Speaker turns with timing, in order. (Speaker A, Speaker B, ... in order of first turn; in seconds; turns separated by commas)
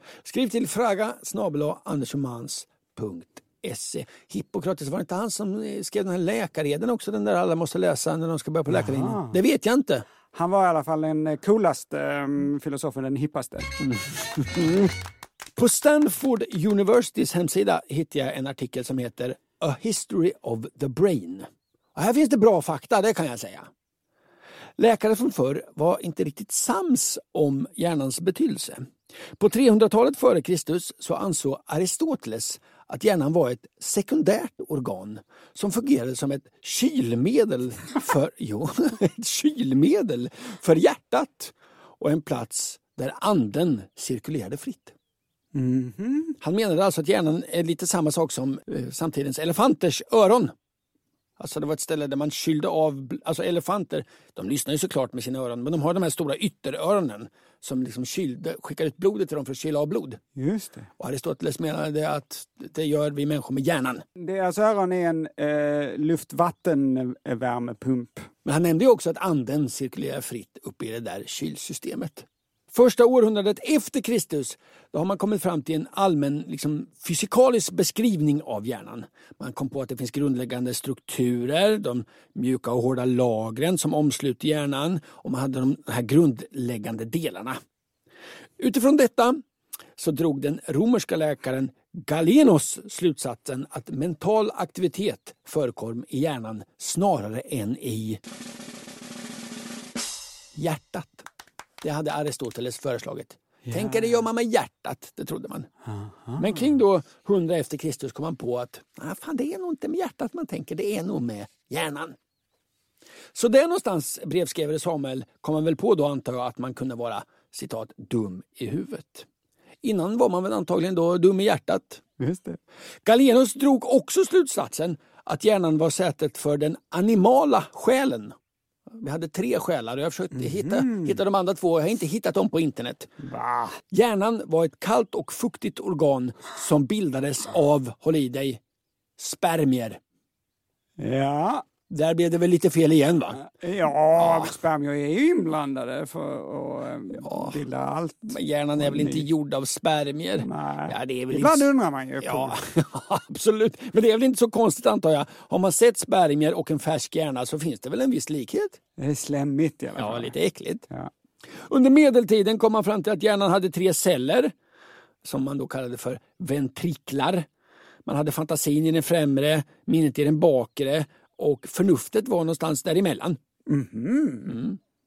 Speaker A: 0.2-10.1, Speaker B: 8.7-9.4, Speaker B: 10.3-13.7, Speaker A: 13.8-14.9, Speaker A: 15.6-23.7, Speaker A: 24.8-44.9, Speaker B: 45.5-46.4, Speaker A: 46.4-50.5, Speaker A: 51.4-60.2, Speaker B: 60.4-60.9, Speaker A: 61.0-64.0, Speaker B: 64.2-68.3, Speaker A: 68.5-87.6, Speaker A: 88.6-89.4, Speaker A: 90.0-98.2, Speaker A: 100.6-101.3, Speaker A: 101.8-105.7, Speaker B: 103.7-104.2, Speaker B: 105.9-106.7, Speaker A: 106.4-112.2, Speaker A: 113.3-119.3, Speaker A: 119.8-122.0, Speaker B: 122.2-122.6, Speaker A: 123.0-128.3, Speaker A: 129.0-133.1, Speaker B: 130.3-131.2, Speaker B: 133.2-133.8, Speaker A: 133.9-138.6, Speaker A: 139.2-140.0, Speaker B: 141.0-141.7, Speaker A: 141.9-143.4, Speaker B: 143.4-149.3, Speaker A: 144.2-144.5, Speaker A: 147.2-147.6, Speaker A: 148.3-151.7, Speaker B: 150.4-152.6, Speaker A: 152.2-158.8, Speaker B: 159.0-160.3, Speaker A: 160.0-160.9, Speaker A: 161.7-164.5, Speaker A: 165.2-167.5, Speaker A: 168.1-173.4, Speaker B: 173.7-174.6, Speaker A: 174.5-174.8